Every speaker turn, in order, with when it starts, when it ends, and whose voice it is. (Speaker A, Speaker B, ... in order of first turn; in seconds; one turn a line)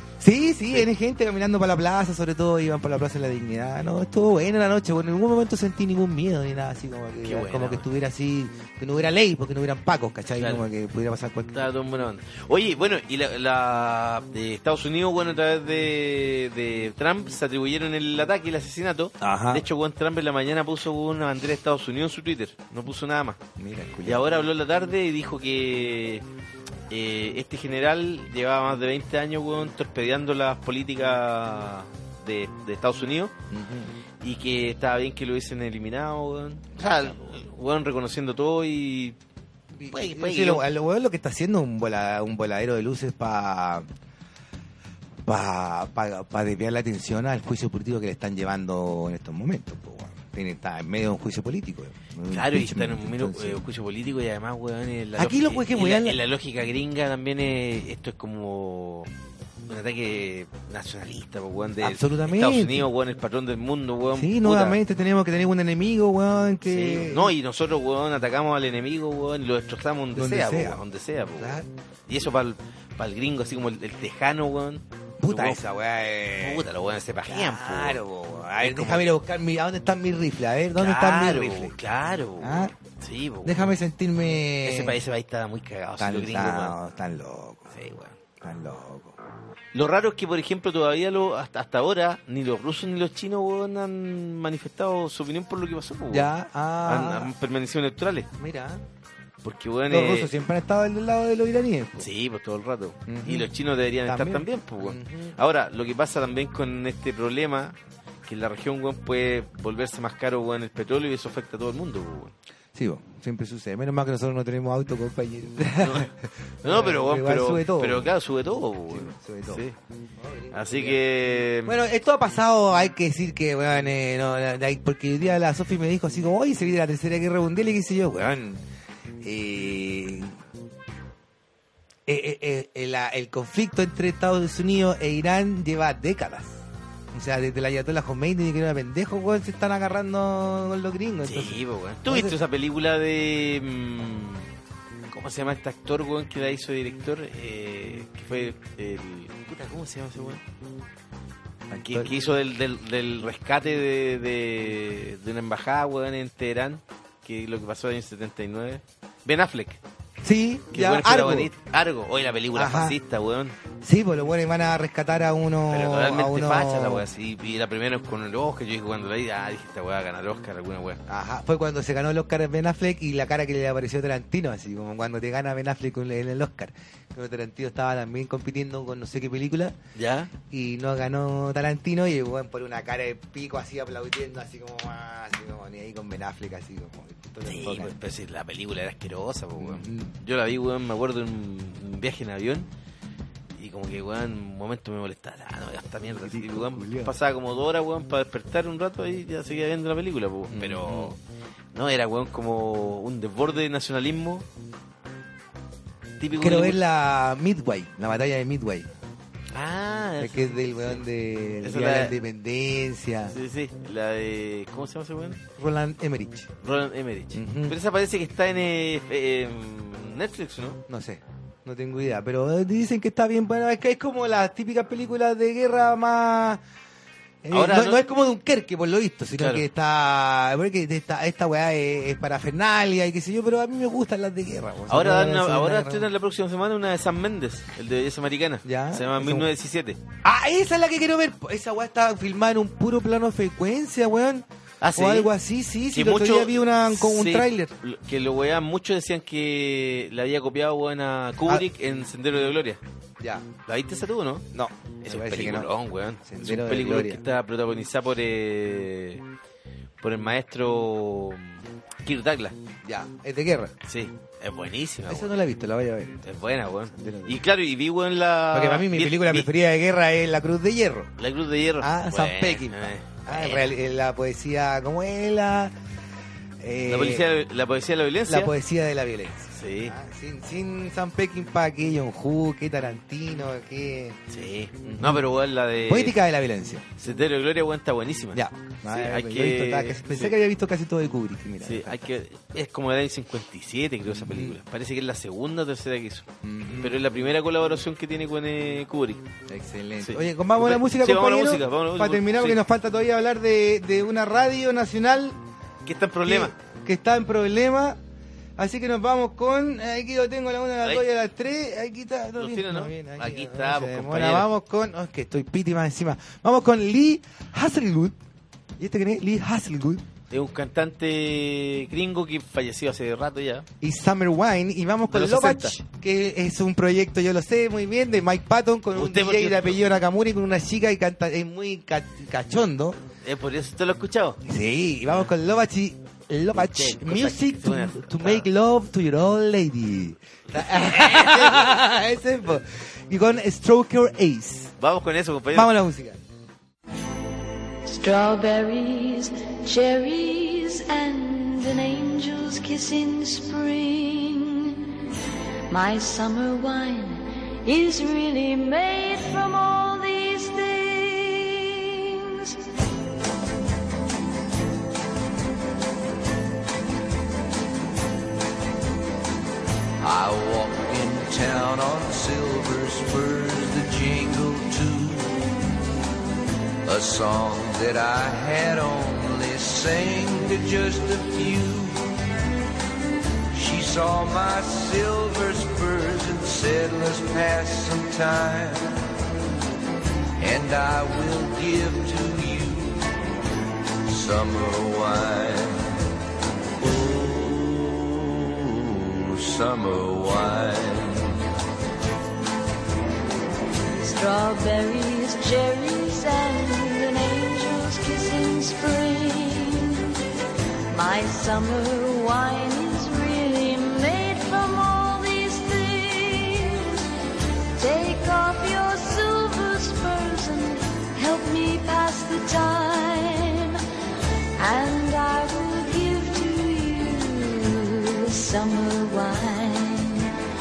Speaker A: 0.2-11.6
Speaker B: 7.2-7.8
Speaker B: 10.4-10.6
Speaker B: 11.5-23.4
Speaker A: 19.2-19.6
Speaker A: 23.6-24.2
Speaker B: 24.0-26.2
Speaker B: 26.9-33.3
Speaker A: 33.5-33.9
Speaker B: 34.2-39.2
Speaker A: 36.8-37.1
Speaker A: 39.8-43.9
Speaker B: 39.9-40.6
Speaker A: 45.2-53.6
Speaker B: 52.3-59.1
Speaker A: 55.2-56.2
Speaker B: 59.7-64.8
Speaker A: 61.8-62.9
Speaker A: 64.1-67.3
Speaker B: 66.7-75.6
Speaker A: 70.1-70.8
Speaker A: 71.4-71.7
Speaker A: 75.2-76.7
Speaker B: 76.4-78.0
Speaker A: 77.2-81.7
Speaker B: 78.6-79.0
Speaker B: 80.8-83.8
Speaker A: 82.4-82.7
Speaker A: 83.4-85.0
Speaker B: 84.6-86.8
Speaker A: 86.0-87.7
Speaker B: 87.7-88.1
Speaker A: 88.4-89.2
Speaker B: 89.7-96.3
Speaker A: 96.1-97.3
Speaker B: 96.8-98.3
Speaker A: 98.4-98.8
Speaker B: 99.4-100.3
Speaker A: 99.9-102.1
Speaker B: 102.0-112.3
Speaker A: 103.1-103.5
Speaker A: 104.0-105.3
Speaker A: 112.7-116.1
Speaker B: 115.8-116.1
Speaker B: 116.6-119.8
Speaker A: 116.6-118.1
Speaker A: 118.9-119.6
Speaker A: 120.2-121.0
Speaker B: 120.5-121.8
Speaker A: 121.6-128.6
Speaker A: 129.2-130.3
Speaker A: 132.1-142.3
Speaker B: 141.2-144.5
Speaker B: 145.1-150.4
Speaker A: 151.7-152.1
Speaker B: 151.8-159.8
Speaker A: 160.2-161.5
Speaker B: 160.7-163.6
Speaker A: 162.5-163.0
Speaker A: 163.8-167.1
Speaker B: 165.7-171.0
Speaker A: 171.1-179.7
Speaker B: 179.9-180.3
Speaker A: 180.5-187.9
Speaker B: 187.4-192.7
Speaker A: 189.6-190.1
Speaker B: 193.6-201.2
Speaker A: 196.2-197.1
Speaker A: 200.5-201.1
Speaker B: 201.7-204.4
Speaker B: 206.2-206.8
Speaker A: 206.4-208.9
Speaker B: 209.5-211.0
Speaker A: 210.2-213.3
Speaker B: 211.6-212.2
Speaker B: 213.3-215.4
Speaker A: 215.6-216.5
Speaker B: 216.6-220.8
Speaker A: 217.3-217.8
Speaker A: 220.9-226.6
Speaker A: 227.4-236.1
Speaker B: 227.5-228.0
Speaker B: 229.4-229.6
Speaker B: 234.9-240.0
Speaker A: 238.6-239.5
Speaker A: 240.2-247.7
Speaker B: 244.8-245.3
Speaker B: 245.9-252.8
Speaker A: 253.2-253.5
Speaker B: 253.7-254.4
Speaker A: 254.5-255.7
Speaker B: 255.0-259.2
Speaker A: 256.2-257.2
Speaker B: 260.0-262.6
Speaker A: 262.8-263.7
Speaker B: 263.9-265.3
Speaker A: 265.1-266.2
Speaker B: 266.2-269.5
Speaker A: 267.0-267.4
Speaker A: 268.5-271.1
Speaker B: 271.2-273.7
Speaker A: 271.8-275.7
Speaker A: 276.6-277.3
Speaker B: 276.9-278.5
Speaker A: 278.3-284.2
Speaker B: 279.6-279.9
Speaker B: 284.3-286.1
Speaker A: 284.8-285.2
Speaker A: 285.9-286.8
Speaker B: 287.0-290.3
Speaker A: 288.3-292.0
Speaker B: 291.6-299.2
Speaker A: 294.1-294.6
Speaker A: 296.4-297.0
Speaker A: 299.5-305.4
Speaker B: 300.0-302.6
Speaker B: 305.9-306.5
Speaker A: 306.2-308.0
Speaker A: 308.6-318.1
Speaker B: 312.4-314.5
Speaker A: 318.8-320.0
Speaker B: 320.3-323.6
Speaker A: 323.8-333.0
Speaker B: 325.1-325.8
Speaker B: 328.9-329.8
Speaker B: 333.2-334.4
Speaker A: 334.4-344.7
Speaker B: 336.5-338.4
Speaker B: 340.5-341.8
Speaker B: 344.8-345.7
Speaker A: 345.5-346.2
Speaker C: 347.8-354.9
Speaker C: 355.7-362.6
Speaker D: 370.0-375.5
Speaker D: 376.8-382.1
Speaker D: 383.5-389.0
Speaker D: 390.4-393.1
Speaker D: 394.1-395.9
Speaker D: 396.8-401.4
Speaker C: 403.9-410.1
Speaker C: 410.9-417.0
Speaker C: 417.8-423.8
Speaker C: 424.6-430.3